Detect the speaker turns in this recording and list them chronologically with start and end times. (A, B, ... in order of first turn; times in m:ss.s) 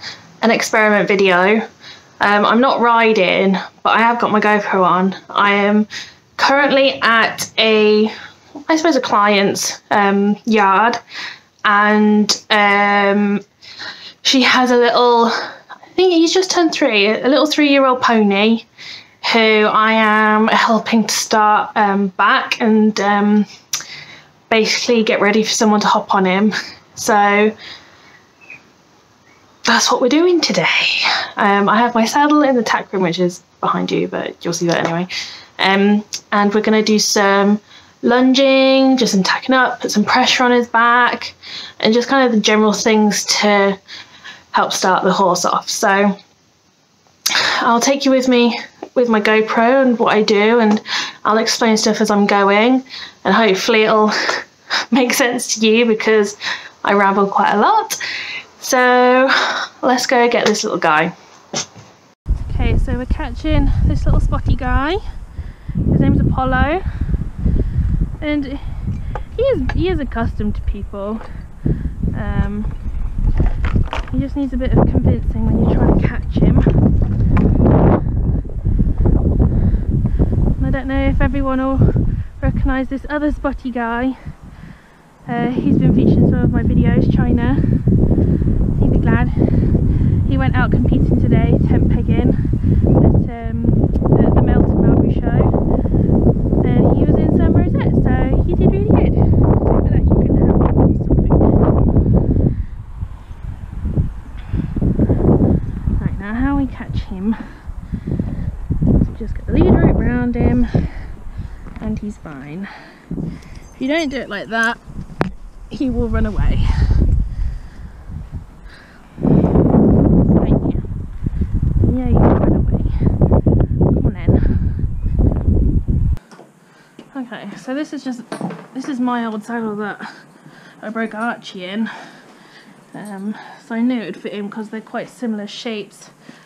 0:00.4-0:01.6 A
0:02.2-0:08.1 A
0:08.7-0:11.0 A
0:11.6-0:13.4 A
0:14.2-0:18.6 A
0:19.2-0:23.5 A
0:24.5-0:27.6 A
0:29.6-0:43.8 A
0:44.5-0:46.2 A
0:47.3-0:58.0 A
0:58.6-1:01.1 A
1:02.4-1:05.0 A
1:05.9-1:07.1 A
1:08.2-1:08.8 A
1:09.3-1:11.2 A
1:12.1-1:12.8 A
1:14.1-1:16.7 A
1:20.6-1:24.3 A
1:25.2-1:27.9 A
1:28.8-1:32.4 A
1:33.0-1:35.5 A
1:36.6-1:41.6 A
1:46.0-1:47.6 A
1:49.0-1:51.1 A
1:51.8-1:52.7 A
1:53.7-1:54.8 A
1:55.7-1:57.0 A
2:00.4-2:00.9 A
2:01.8-2:02.9 A
2:03.9-2:04.8 A
2:07.1-2:10.2 A
2:10.8-2:12.3 A
2:12.9-2:16.1 A